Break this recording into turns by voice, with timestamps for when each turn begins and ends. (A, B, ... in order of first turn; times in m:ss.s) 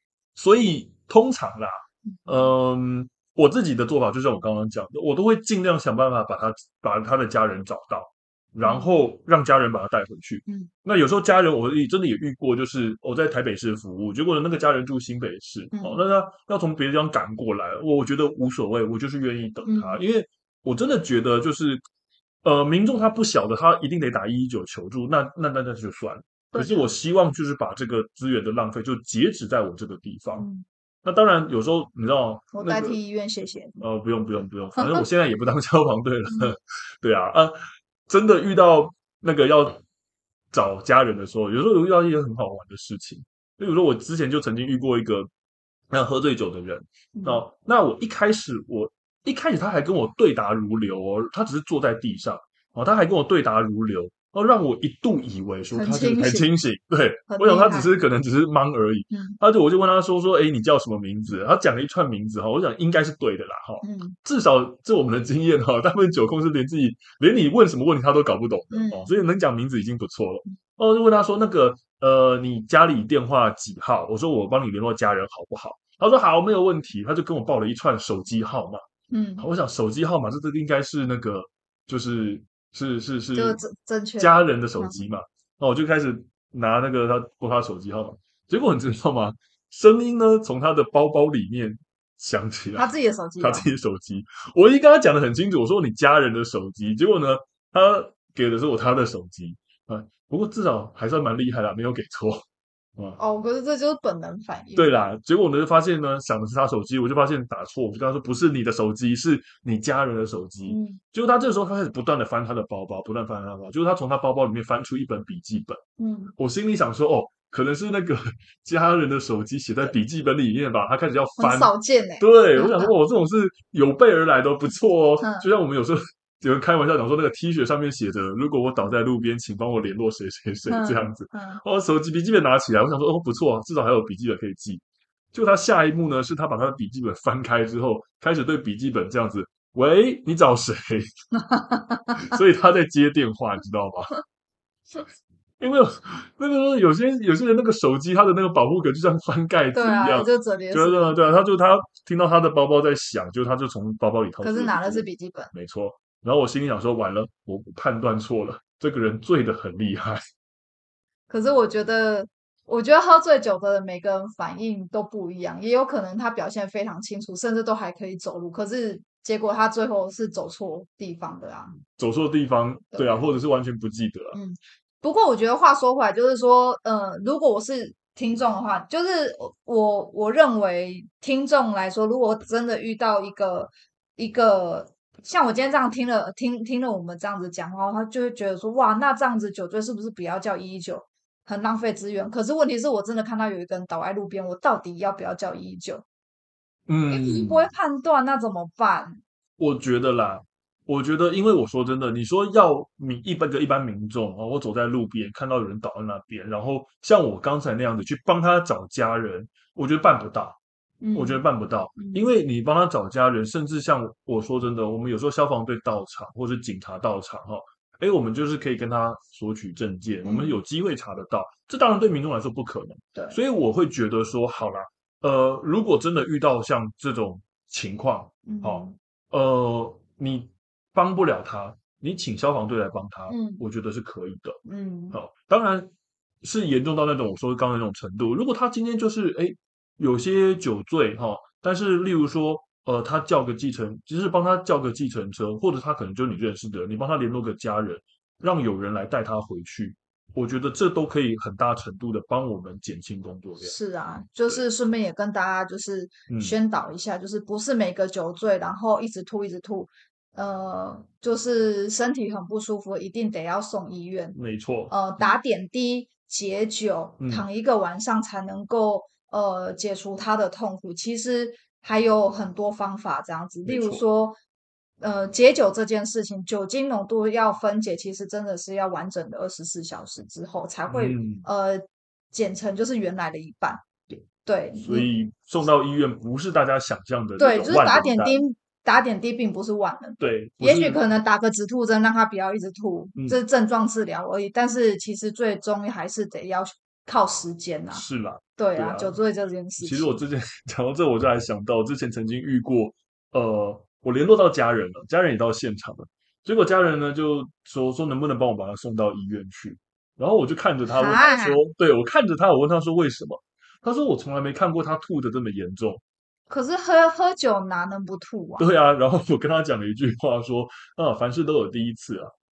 0:00.4-0:21.8 A
0:02.2-0:02.5 B
0:08.6-0:09.1 B
0:15.7-0:16.0 B
0:19.6-0:20.0 B
0:22.4-0:30.5 A
0:26.5-0:26.9 B
0:30.3-0:30.6 B
0:31.0-0:33.0 A
0:32.5-0:33.8 B
0:33.8-0:37.6 A
0:34.8-0:35.0 B
0:38.1-0:39.8 A
0:40.5-0:45.3 A
0:45.9-1:18.8 A
0:47.1-0:47.4 B
0:55.7-0:56.5 B
0:57.3-0:57.9 B
0:59.1-0:59.4 B
1:03.8-1:04.1 B
1:08.7-1:09.1 B
1:19.1-1:19.4 B
1:19.4-1:23.6 A
1:23.3-1:25.0 B
1:24.2-1:42.4 A
1:32.8-1:33.7 B
1:43.2-1:45.0 B
1:44.8-1:55.8 A
1:50.6-1:51.0 B
1:56.0-1:56.3 B
1:56.4-2:21.1 A
2:01.4-2:02.9 B
2:05.2-2:05.5 B
2:10.7-2:11.6 B
2:21.4-2:22.3 B
2:22.2-2:24.2 A
2:25.6-2:40.2 A
2:29.7-2:31.0 B
2:34.4-2:35.5 B
2:41.3-2:51.8 B
2:51.9-2:54.4 A
2:52.9-2:53.2 B
2:54.3-3:16.0 B
3:16.9-3:17.7 A
3:17.1-3:19.2 B
3:19.6-3:30.6 A
3:31.0-3:31.4 B
3:31.1-3:54.6 A
3:32.0-3:32.3 B
3:40.2-3:40.6 B
3:48.5-3:49.0 B
3:53.3-3:53.6 B
3:54.6-3:55.2 B
3:55.1-3:55.9 A
3:56.4-4:13.8 A
4:13.6-4:24.4 B
4:16.3-4:16.6 A
4:24.3-4:25.3 A
4:24.9-4:34.4 B
4:27.2-4:27.4 A
4:33.6-4:34.0 A
4:35.0-4:43.8 B
4:40.9-4:41.5 A
4:44.4-4:45.1 B
4:44.7-4:48.4 A
4:47.4-4:58.0 B
4:50.2-4:51.0 A
4:53.1-4:53.4 A
4:57.9-4:59.2 A
4:58.6-5:00.2 B
4:59.8-5:16.0 A
5:10.9-5:11.6 B
5:16.5-5:18.6 B
5:18.6-5:22.3 A